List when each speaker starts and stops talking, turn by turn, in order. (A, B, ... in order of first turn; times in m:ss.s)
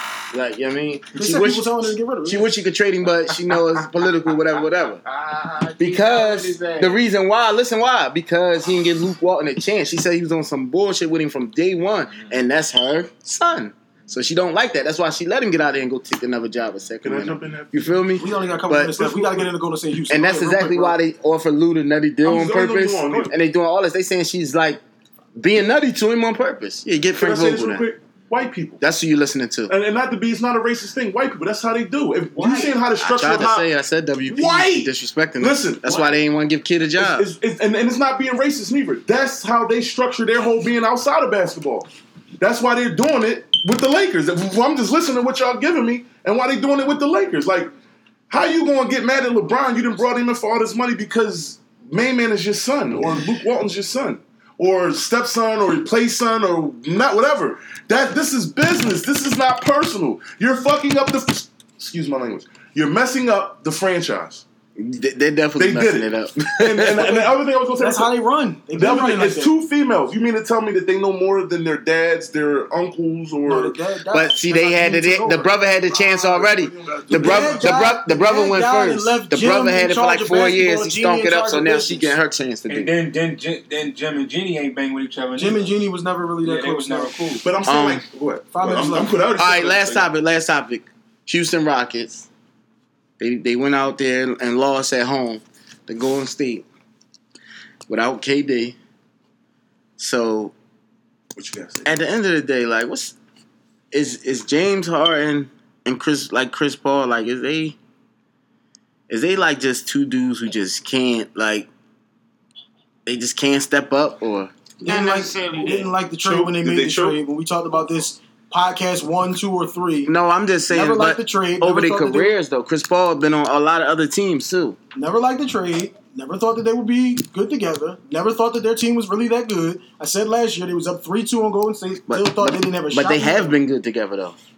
0:00.3-0:05.0 A
0:01.1-0:02.5 B
0:03.5-0:03.8 C
0:04.4-0:07.0 D
0:05.8-0:19.1 A
0:17.0-0:18.1 E
0:18.2-0:21.0 B
0:19.0-0:19.4 E
0:20.1-0:24.8 A
0:22.2-0:23.3 E
0:25.4-0:27.9 A
0:27.2-0:28.8 E
0:28.8-0:29.7 A
0:29.7-0:33.7 E
0:32.3-0:32.7 C
0:32.9-0:37.3 A
0:34.3-0:36.2 E
0:37.0-0:41.9 E
0:42.4-0:47.7 E
0:48.3-1:04.4 E
1:04.8-1:07.3 A
1:05.6-1:08.1 E
1:07.8-1:09.5 B
1:08.7-1:13.8 E
1:13.4-1:22.2 B
1:14.1-1:22.9 A
1:16.8-1:17.8 E
1:22.7-1:25.6 C
1:25.4-1:27.1 B
1:26.4-1:27.4 C
1:27.4-1:30.1 E
1:27.7-1:28.1 A
1:28.5-1:29.2 B
1:29.3-1:32.3 A
1:33.2-1:36.6 A
1:37.9-1:38.7 A
1:40.0-1:40.5 A
1:41.4-1:41.9 E
1:41.8-1:43.1 A
1:43.9-1:47.8 A
1:49.1-1:51.7 A
1:53.0-1:54.5 A
1:54.8-1:55.9 D
1:54.8-2:00.1 B
1:56.2-1:57.2 E
2:00.0-2:04.8 A
2:00.7-2:02.3 B
2:04.9-2:13.6 B
2:12.1-2:14.4 A